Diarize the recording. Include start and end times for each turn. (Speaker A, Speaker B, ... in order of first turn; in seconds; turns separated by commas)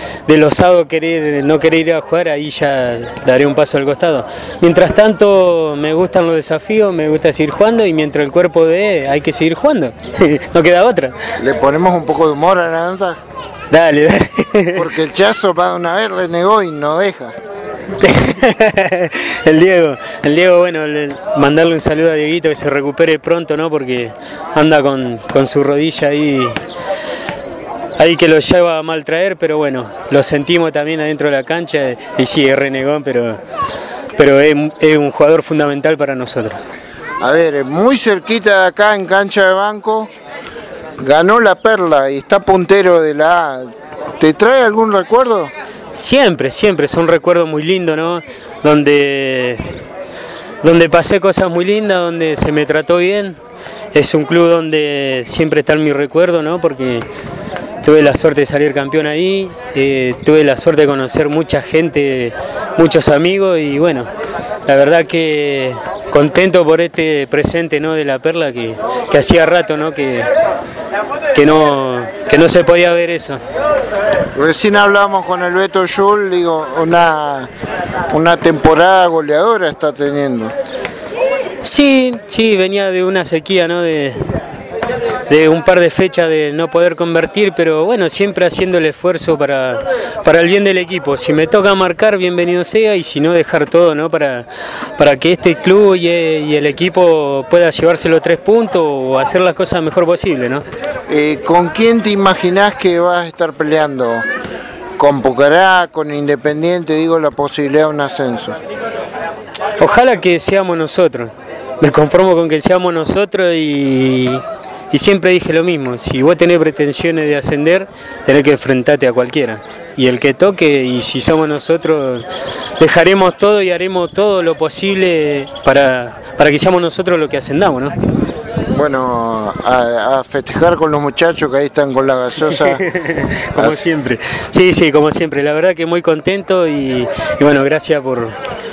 Speaker A: 0.3-11.2, Speaker B: 11.4-13.2, Speaker A: 13.7-14.9, Speaker B: 14.8-17.4, Speaker A: 18.0-26.6, Speaker A: 28.0-33.4, Speaker A: 34.2-36.6, Speaker B: 37.2-40.1, Speaker B: 41.0-45.5, Speaker A: 46.0-49.7, Speaker A: 50.6-53.4, Speaker A: 53.9-57.1, Speaker A: 57.8-64.1, Speaker A: 64.7-70.3, Speaker A: 71.3-73.4, Speaker B: 74.4-77.5, Speaker B: 78.1-80.5, Speaker A: 81.6-84.2, Speaker A: 85.3-94.5, Speaker A: 95.0-100.7, Speaker B: 101.1-104.3, Speaker B: 105.0-108.6, Speaker A: 109.8-122.3, Speaker A: 122.8-127.9, Speaker B: 128.7-132.8, Speaker A: 132.6-138.3, Speaker B: 133.6-133.8